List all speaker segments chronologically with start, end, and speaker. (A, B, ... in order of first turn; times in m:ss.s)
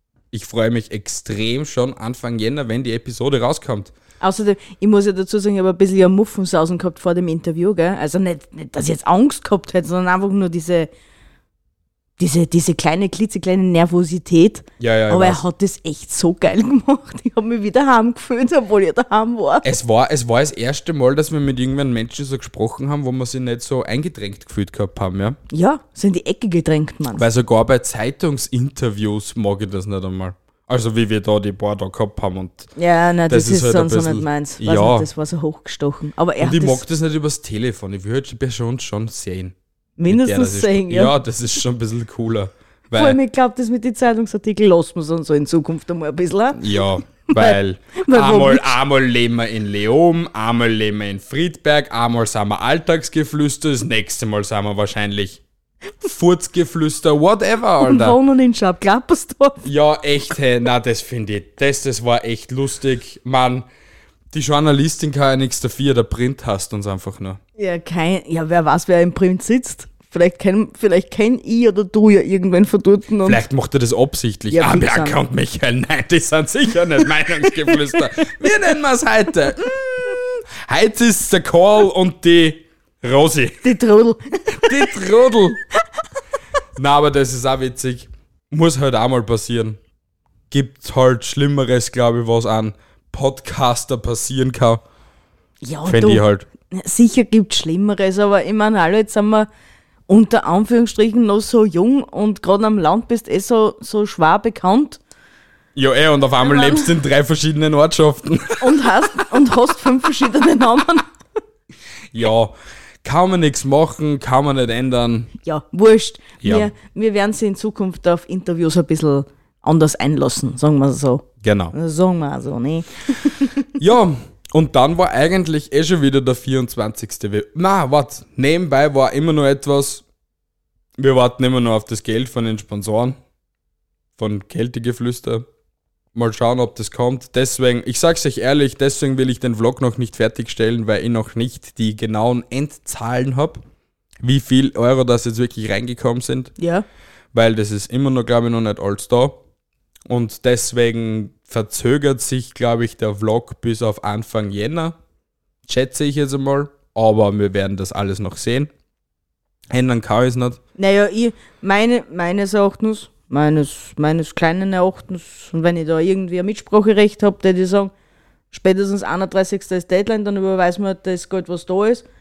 0:00.3-0:03.9 A
0:04.2-0:10.9 B
0:12.2-0:19.8 B
0:14.8-0:15.4 A
0:19.6-0:25.4 A
0:25.5-0:27.2 B
0:27.2-0:32.7 A
0:32.8-0:36.8 B
0:33.3-0:35.1 A
0:36.4-0:39.6 A
0:40.0-0:41.1 B
0:40.1-0:43.2 A
0:42.9-0:46.7 B
0:46.6-0:55.4 A
0:47.3-0:48.8 B
0:56.0-0:58.2 A
0:57.8-0:59.7 B
0:59.6-1:03.6 A
1:04.3-1:07.4 A
1:07.6-1:13.4 B
1:13.2-1:23.7 A
1:14.5-1:15.2 B
1:23.6-1:24.9 B
1:24.7-1:25.6 A
1:26.8-1:29.8 A
1:30.5-1:34.8 A
1:35.6-1:39.5 B
1:35.8-1:36.5 A
1:40.1-1:45.0 B
1:45.8-1:48.9 A
1:46.4-1:46.9 B
1:48.6-1:51.1 B
1:52.1-1:55.3 A
1:55.4-2:03.6 B
1:56.4-1:56.7 A
2:01.4-2:01.7 A
2:03.8-2:10.0 A
2:11.0-2:13.2 A
2:14.2-2:15.5 A
2:16.1-2:23.6 A
2:24.2-2:26.5 A
2:26.6-2:26.8 B
2:27.3-2:29.4 A
2:30.1-2:35.0 A
2:35.7-2:38.7 A
2:39.7-2:40.6 A
2:40.8-2:47.9 B
2:48.5-2:52.0 B